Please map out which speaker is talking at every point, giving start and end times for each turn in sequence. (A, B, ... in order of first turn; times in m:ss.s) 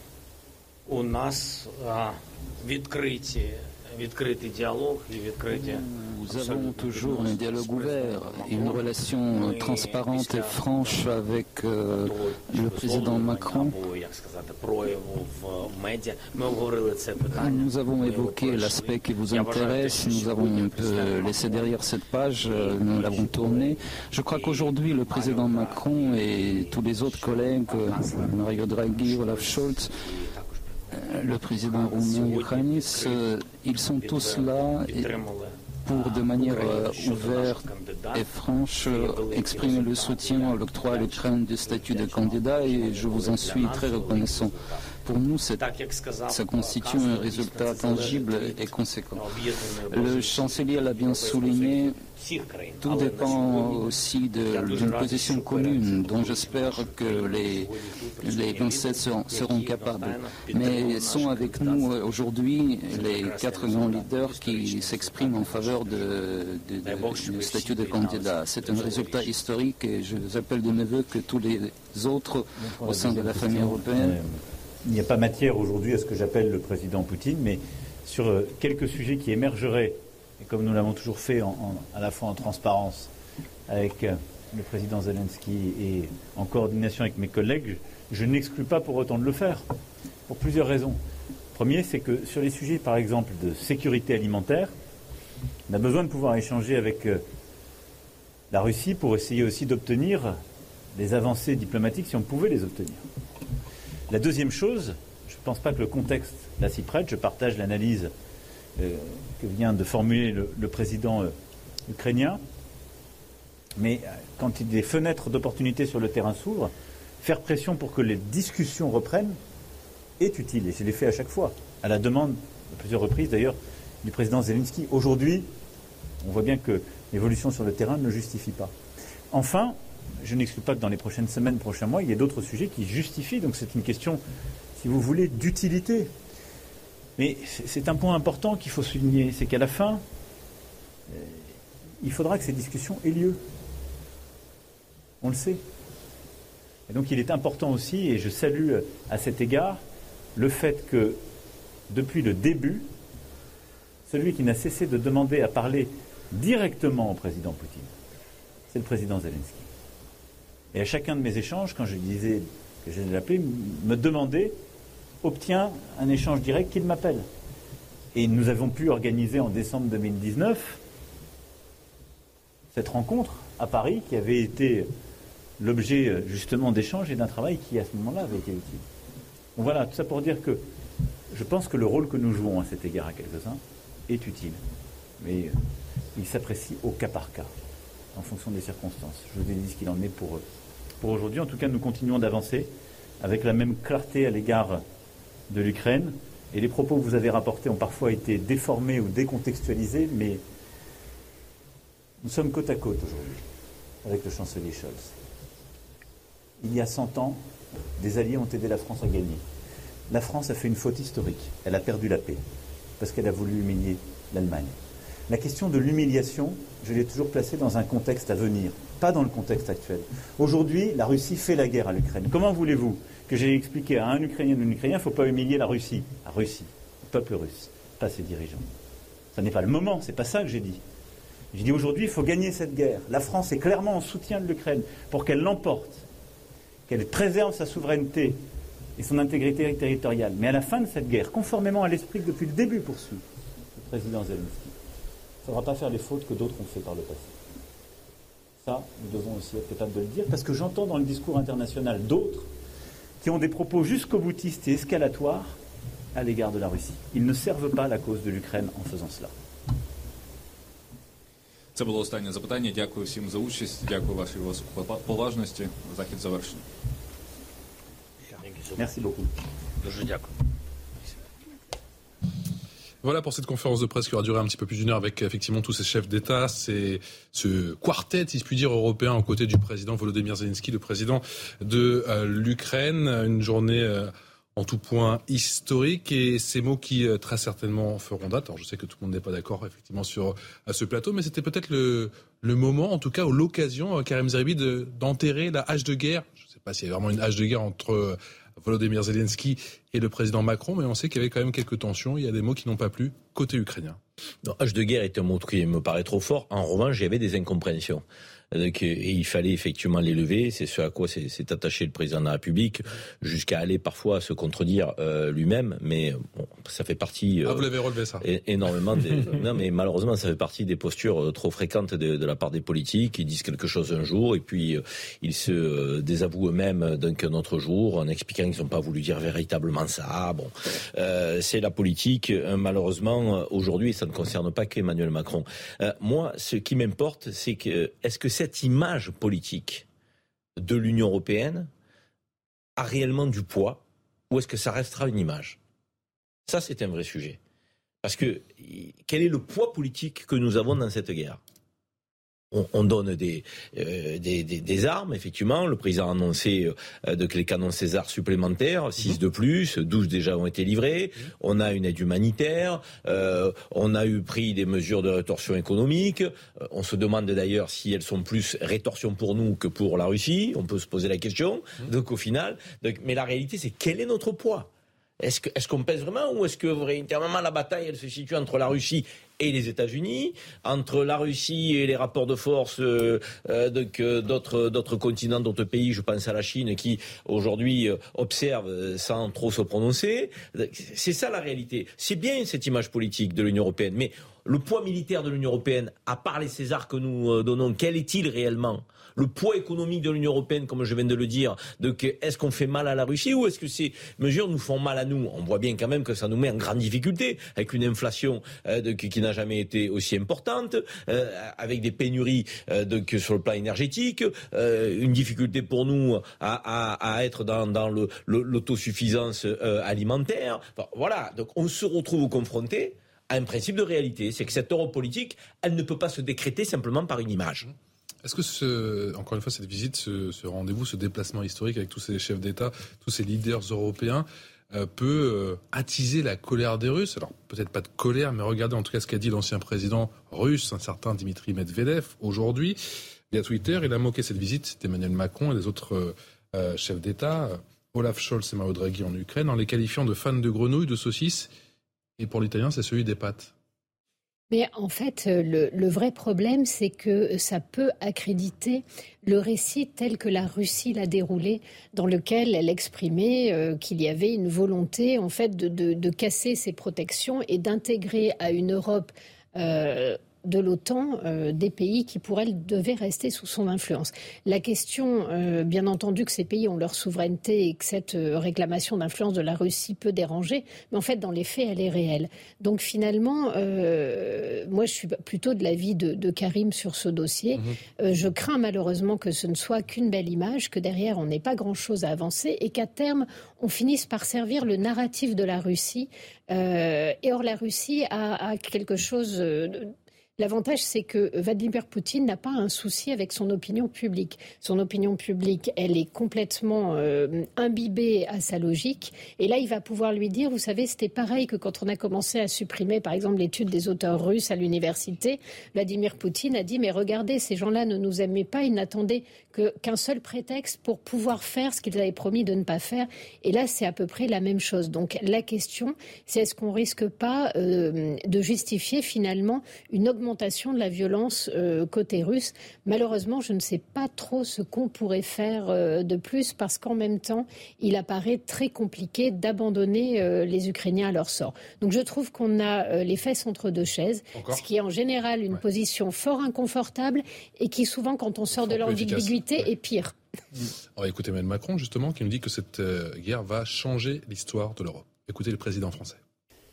0:00.9-0:11.2 A
0:05.5-0:13.8 B
0:12.0-0:21.8 A
0:17.3-0:30.0 B
0:22.4-0:33.2 A
0:30.9-0:35.1 B
0:33.8-0:44.9 A
0:35.8-0:44.5 B
0:45.0-0:45.7 B
0:45.6-1:01.9 A
0:46.3-0:49.4 B
0:49.9-0:52.0 B
0:52.8-0:57.7 B
0:58.2-1:14.2 B
1:02.9-1:06.1 A
1:06.8-1:09.3 A
1:12.6-1:23.1 C
1:23.7-1:29.7 C
1:30.3-1:31.0 C
1:31.5-1:34.8 C
1:35.7-1:37.2 C
1:38.5-1:40.4 C
1:41.0-1:43.1 C
1:44.1-1:48.1 C
1:48.8-1:51.4 C
1:51.9-1:52.4 C
1:53.8-1:59.4 C
2:00.2-2:05.5 C
2:06.2-2:08.7 C
2:09.3-2:14.2 C
2:14.8-2:16.1 C
2:17.2-2:20.0 C
2:21.1-2:21.4 C
2:22.0-2:23.4 C
2:25.2-2:25.6 C
2:26.9-2:29.8 C
2:30.4-2:31.2 C
2:31.9-2:32.9 C
2:34.1-2:37.9 C
2:38.7-2:39.7 C
2:40.7-2:44.6 C
2:45.2-2:47.3 C
2:48.1-2:50.8 C
2:52.7-2:54.9 C
2:55.6-2:58.8 C
2:59.6-3:00.6 C
3:01.3-3:04.6 C
3:05.2-3:05.6 C
3:06.2-3:07.5 C
3:08.1-3:10.4 C
3:11.0-3:14.8 C
3:15.5-3:20.4 C
3:22.2-3:23.4 C
3:24.0-3:25.1 C
3:26.6-3:27.5 C
3:28.0-3:29.4 C
3:30.1-3:32.4 C
3:33.0-3:34.8 C
3:35.3-3:48.7 C
3:49.3-3:50.8 C
3:51.5-3:56.1 C
3:56.9-3:58.4 C
3:59.0-4:03.2 C
4:03.8-4:04.8 C
4:05.4-4:07.4 C
4:08.6-4:12.5 C
4:13.2-4:15.6 C
4:16.1-4:19.3 C
4:21.8-4:26.6 D
4:28.3-4:28.8 A
4:28.8-4:29.3 C
4:29.8-4:30.3 A
4:33.0-5:04.0 E
5:04.4-5:17.7 F
5:17.4-5:18.3 E
5:18.2-5:39.9 F
5:40.6-5:41.7 F
5:42.8-5:45.6 F
5:46.5-5:47.4 F
5:48.0-5:51.4 F
5:52.5-6:14.7 F
6:15.2-7:07.7 F
7:08.2-7:22.8 E
7:23.3-7:31.5 E
7:32.2-7:33.5 E
7:34.5-9:10.2 G
9:04.4-9:04.6 E
9:08.6-9:09.4 E
9:11.0-9:16.2 E